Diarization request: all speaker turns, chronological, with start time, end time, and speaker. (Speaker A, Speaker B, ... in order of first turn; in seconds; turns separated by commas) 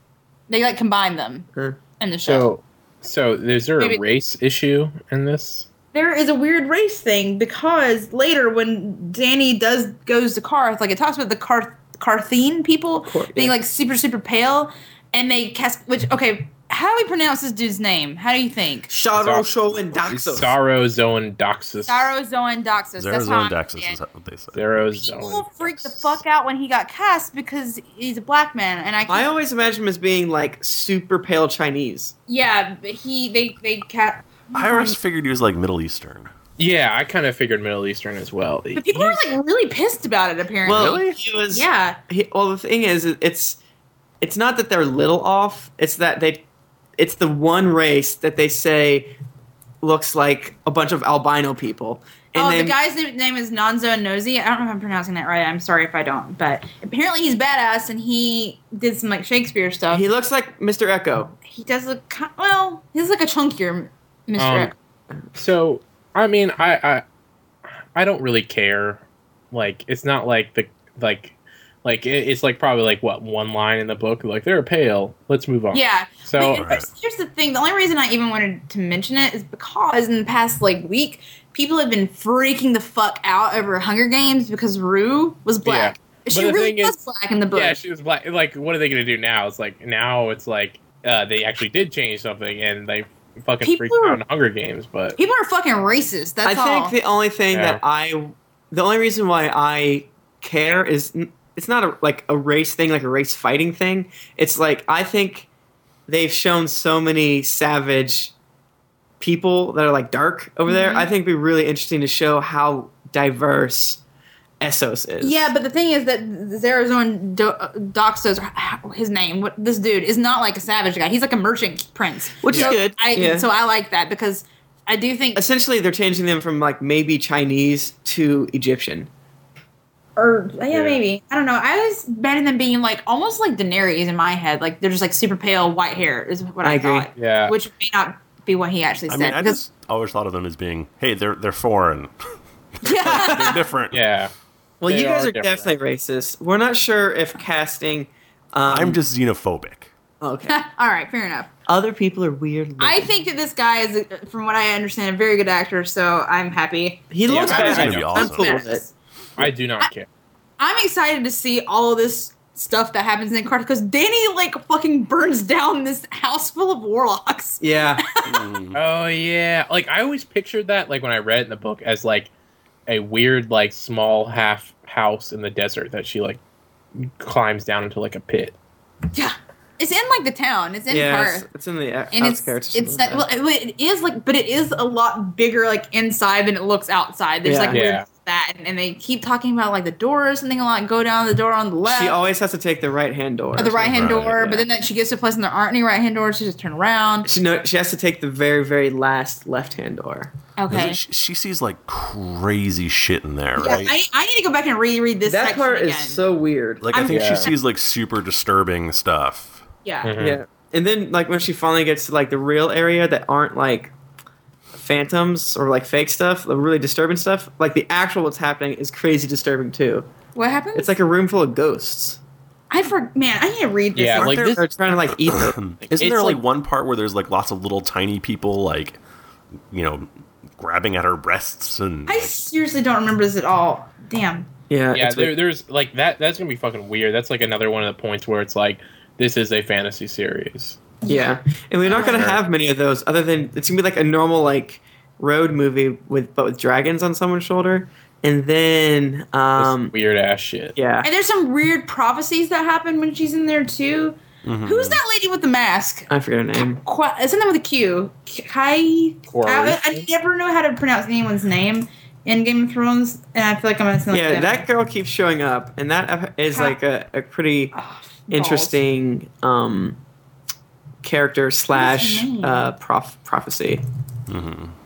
Speaker A: 0.5-1.5, Speaker A: 2.0-2.5, Speaker B: 2.2-5.7, Speaker A: 5.9-18.9, Speaker C: 13.0-13.5, Speaker C: 18.9-20.5, Speaker B: 19.2-19.5, Speaker B: 20.0-22.1, Speaker A: 21.9-24.0, Speaker D: 23.0-24.7, Speaker B: 24.5-26.1, Speaker A: 25.0-29.3, Speaker C: 29.1-32.1, Speaker A: 32.3-35.0, Speaker D: 34.5-36.3, Speaker B: 36.6-39.2, Speaker A: 38.8-42.0, Speaker C: 40.6-43.6, Speaker D: 40.7-41.2, Speaker C: 44.2-46.4, Speaker C: 47.0-49.1, Speaker C: 49.8-52.8, Speaker A: 52.3-60.0, Speaker C: 59.9-61.3, Speaker A: 61.5-64.7, Speaker B: 64.4-64.7, Speaker B: 65.3-67.0, Speaker B: 67.9-76.7, Speaker A: 75.7-87.8, Speaker D: 76.5-76.9, Speaker B: 85.6-87.0, Speaker B: 87.5-95.2, Speaker A: 93.6-94.2, Speaker A: 95.2-96.9, Speaker C: 96.4-105.5, Speaker B: 97.5-97.8, Speaker C: 106.1-108.3, Speaker C: 109.2-114.0, Speaker A: 110.7-111.1, Speaker C: 114.6-115.5, Speaker A: 115.2-125.4, Speaker C: 122.4-123.5, Speaker C: 125.3-129.1, Speaker A: 130.2-139.6, Speaker B: 130.7-131.0, Speaker C: 136.6-137.1, Speaker B: 137.2-137.6, Speaker D: 139.1-142.1, Speaker D: 142.8-144.0, Speaker A: 142.8-143.6, Speaker B: 143.9-144.3, Speaker C: 144.8-149.0, Speaker B: 144.8-145.7, Speaker D: 148.7-149.9, Speaker C: 150.2-150.6, Speaker A: 150.5-151.5, Speaker C: 151.7-153.1, Speaker A: 152.8-158.9, Speaker C: 157.1-158.8, Speaker B: 157.3-158.2, Speaker D: 157.4-158.6, Speaker B: 159.4-160.1, Speaker A: 160.6-168.4, Speaker C: 167.6-168.0, Speaker D: 168.2-168.8, Speaker B: 168.7-172.3, Speaker B: 172.9-176.4, Speaker B: 177.0-178.6, Speaker A: 179.1-181.4, Speaker C: 180.9-183.2, Speaker A: 182.1-192.2, Speaker C: 187.4-187.8, Speaker B: 187.7-188.0, Speaker C: 191.8-194.7, Speaker A: 193.6-197.3, Speaker D: 193.9-194.3, Speaker C: 197.2-200.3, Speaker A: 200.6-201.0, Speaker D: 200.7-203.9, Speaker A: 203.6-206.2, Speaker C: 205.2-206.8, Speaker D: 206.8-209.6, Speaker A: 206.9-207.5, Speaker B: 207.1-207.5, Speaker A: 209.8-210.1, Speaker B: 210.0-210.4, Speaker C: 210.2-213.9, Speaker C: 214.7-220.1, Speaker A: 220.3-220.9, Speaker C: 220.7-222.2, Speaker A: 222.7-224.4, Speaker B: 223.9-224.6, Speaker D: 224.2-224.7, Speaker C: 224.4-225.9, Speaker D: 225.2-229.0, Speaker B: 226.0-226.4, Speaker D: 229.7-232.3, Speaker A: 232.1-234.5, Speaker C: 234.7-235.3, Speaker B: 234.9-240.8, Speaker A: 241.0-242.3, Speaker C: 241.0-249.9, Speaker D: 242.0-242.4, Speaker B: 249.6-250.8, Speaker C: 250.8-251.1, Speaker A: 251.0-256.1, Speaker D: 254.4-255.0, Speaker C: 256.1-256.8, Speaker A: 256.8-264.6, Speaker B: 259.3-260.1, Speaker C: 264.1-267.8, Speaker A: 266.5-266.8, Speaker A: 267.7-268.8, Speaker C: 268.3-270.0, Speaker C: 271.0-273.8, Speaker A: 271.7-272.7, Speaker D: 274.3-274.7